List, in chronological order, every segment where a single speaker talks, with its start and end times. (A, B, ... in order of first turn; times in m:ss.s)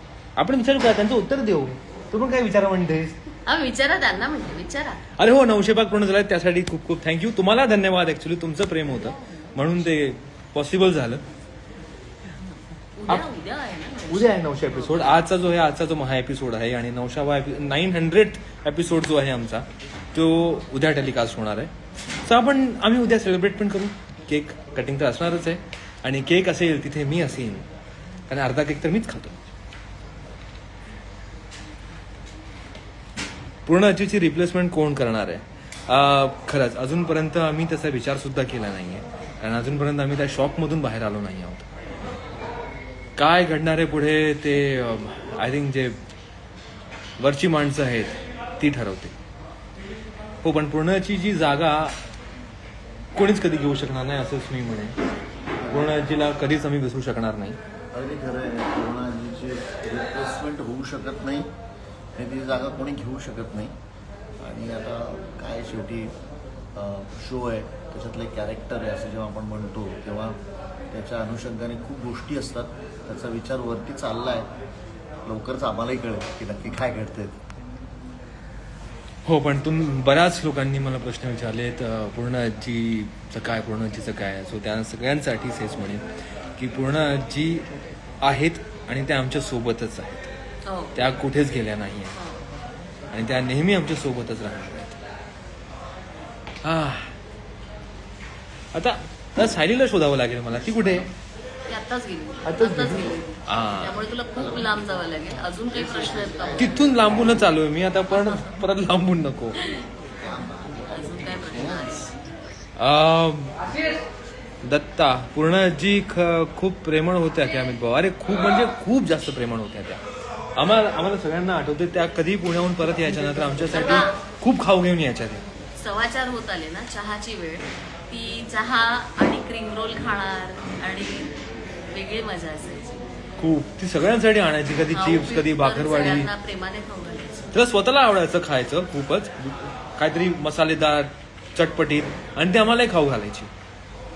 0:00.4-0:03.2 A
0:03.4-0:05.0 B
0:05.2-0:11.2 A
0:13.0-0:15.2 B
0:14.1-0:21.7 A
0:22.2-0:27.7 A
0:28.3-0:29.4 A
0:33.6-0:41.7 A
0:43.2-0:46.0 A
0:47.2-0:49.1 A
0:50.4-0:52.0 A
0:53.1-0:55.0 A
0:55.6-0:56.0 C
0:55.7-0:57.6 A
0:57.9-1:01.5 C
1:02.2-1:03.7 C
1:04.4-1:06.2 C
1:06.7-1:10.4 C
1:10.9-1:14.5 C
1:15.2-1:17.4 C
1:19.2-1:26.0 A
1:26.6-1:27.7 A
1:28.2-1:30.3 A
1:30.6-1:31.1 B
1:30.9-1:32.2 A
1:32.1-1:32.4 B
1:33.1-1:35.0 A
1:36.6-1:37.1 A
1:38.7-1:41.1 A
1:41.7-1:47.2 B
1:42.4-1:44.0 A
1:46.6-1:49.6 A
1:48.1-1:48.5 B
1:49.6-1:49.9 B
1:50.0-1:52.1 C
1:50.8-1:52.1 B
1:52.8-1:53.6 A
1:54.6-2:00.0 A
2:00.6-2:05.4 A
2:03.7-2:04.2 B
2:05.8-2:11.3 B
2:11.9-2:13.0 B
2:13.4-2:16.3 A
2:14.9-2:17.5 B
2:17.5-2:23.5 A